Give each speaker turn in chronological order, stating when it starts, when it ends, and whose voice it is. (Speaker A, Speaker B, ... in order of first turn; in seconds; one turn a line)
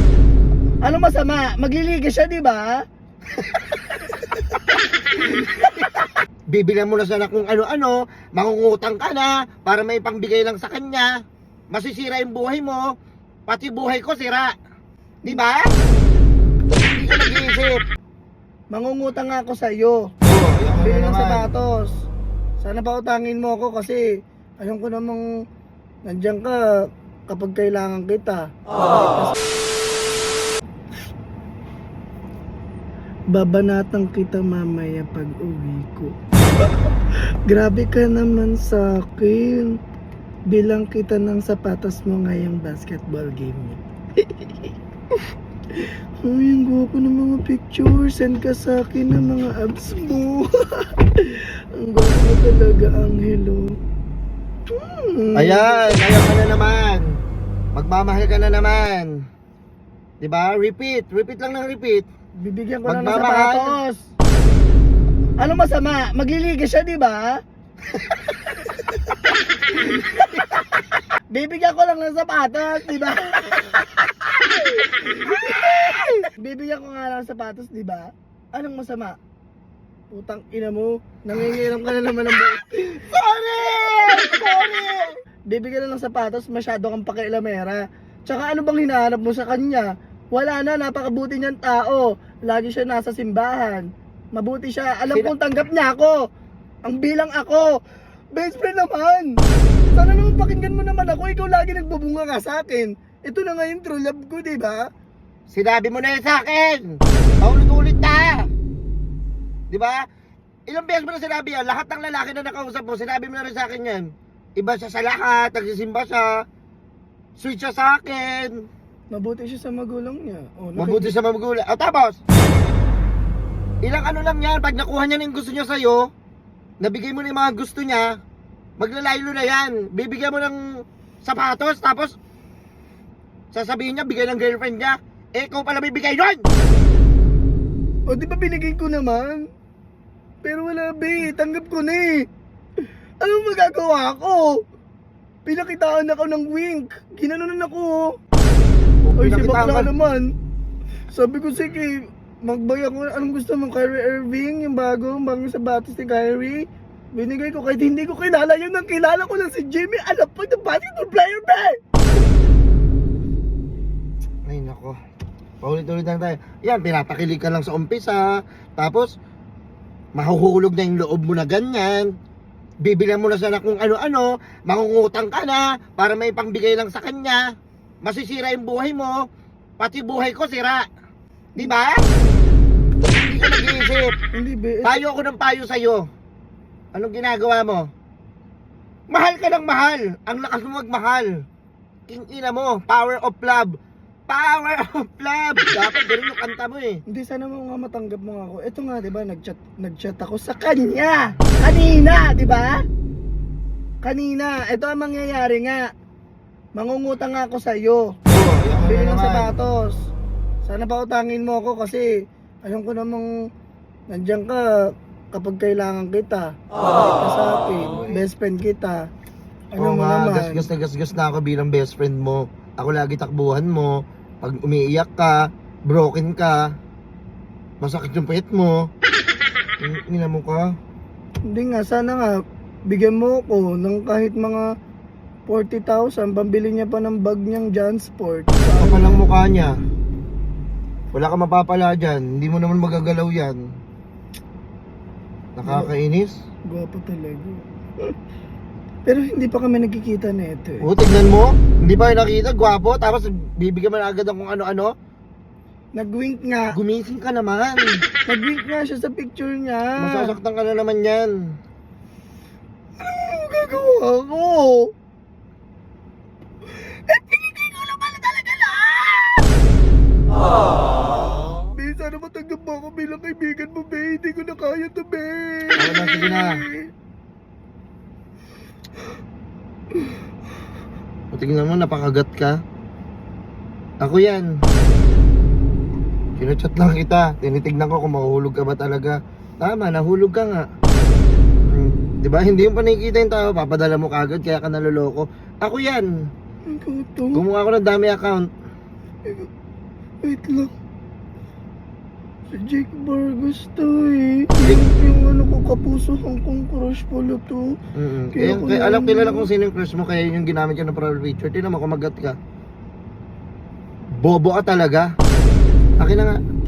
Speaker A: 0.8-2.8
Speaker B: 6.5-11.1
Speaker B: 11.7-12.9
Speaker B: 13.5-14.5
Speaker B: 15.2-15.7
Speaker B: 16.8-17.8
Speaker A: 18.7-20.1
Speaker B: 20.2-21.5
Speaker A: 20.8-21.9
Speaker A: 22.6-24.0
Speaker A: 24.6-25.2
Speaker A: 26.1-26.6
Speaker A: 27.3-29.3
Speaker A: 33.3-36.1
Speaker A: 37.5-39.7
Speaker A: 40.5-43.8
Speaker A: 45.8-53.7
Speaker A: 54.7-55.8
Speaker B: 55.4-57.2
Speaker B: 57.7-59.1
Speaker B: 60.2-62.1
Speaker A: 62.4-64.0
Speaker B: 62.9-63.7
Speaker A: 65.4-67.4
Speaker A: 69.8-70.1
Speaker A: 71.3-74.1
Speaker A: 75.0-79.2
Speaker B: 75.7-76.1
Speaker A: 80.1-83.0
Speaker B: 82.9-85.1
Speaker A: 84.1-84.9
Speaker A: 85.5-96.2
Speaker B: 95.1-95.3
Speaker A: 96.8-97.7
Speaker A: 98.3-99.3
Speaker A: 99.9-104.9
Speaker B: 105.5-108.5
Speaker B: 109.7-110.0
Speaker B: 110.7-114.0
Speaker B: 114.6-116.4
Speaker B: 117.4-118.7
Speaker A: 119.1-121.1
Speaker B: 120.8-122.2
Speaker B: 123.8-126.1
Speaker B: 126.8-128.2
Speaker B: 128.8-130.6
Speaker B: 131.2-132.2
Speaker B: 133.5-136.4
Speaker A: 138.1-139.4
Speaker A: 140.4-142.2
Speaker A: 143.2-144.6
Speaker A: 145.4-148.1
Speaker B: 149.0-149.9
Speaker A: 149.2-150.3
Speaker A: 151.1-156.6
Speaker A: 157.1-161.8
Speaker B: 164.5-165.0
Speaker B: 165.6-168.2
Speaker B: 168.8-169.1
Speaker B: 170.2-172.1
Speaker B: 172.8-177.4
Speaker B: 178.0-179.2
Speaker B: 179.8-180.8
Speaker B: 181.6-182.0
Speaker B: 183.2-184.1
Speaker A: 184.3-185.0
Speaker B: 184.8-186.1
Speaker B: 186.9-187.8
Speaker B: 189.1-191.3
Speaker B: 192.1-193.8
Speaker B: 194.3-197.0
Speaker A: 197.1-202.8
Speaker A: 204.0-205.9
Speaker A: 206.8-208.1
Speaker B: 208.3-209.5
Speaker A: 208.8-210.0
Speaker A: 210.6-212.1
Speaker A: 212.6-213.3
Speaker A: 214.1-219.0
Speaker B: 217.9-218.2
Speaker A: 219.7-220.7
Speaker B: 219.8-226.6
Speaker B: 227.8-228.9
Speaker B: 229.8-230.7
Speaker A: 231.5-234.6
Speaker A: 235.5-239.2
Speaker B: 238.8-239.7
Speaker B: 241.1-243.6
Speaker B: 245.6-246.3
Speaker A: 245.6-245.9
Speaker A: 246.7-248.1
Speaker A: 249.1-250.9
Speaker B: 250.8-254.9
Speaker A: 255.9-256.7
Speaker B: 256.7-258.0
Speaker A: 258.3-260.3
Speaker B: 260.0-261.3
Speaker A: 263.0-264.9
Speaker A: 267.1-269.4
Speaker A: 270.7-276.9
Speaker B: 275.8-276.6
Speaker B: 281.3-282.6
Speaker B: 284.0-284.5
Speaker B: 286.4-290.6
Speaker B: 291.7-296.1
Speaker A: 296.7-297.4
Speaker B: 297.3-298.5
Speaker A: 300.2-300.7
Speaker A: 302.5-307.8
Speaker B: 307.9-312.4
Speaker A: 308.3-309.5
Speaker B: 314.2-315.1
Speaker B: 316.0-316.4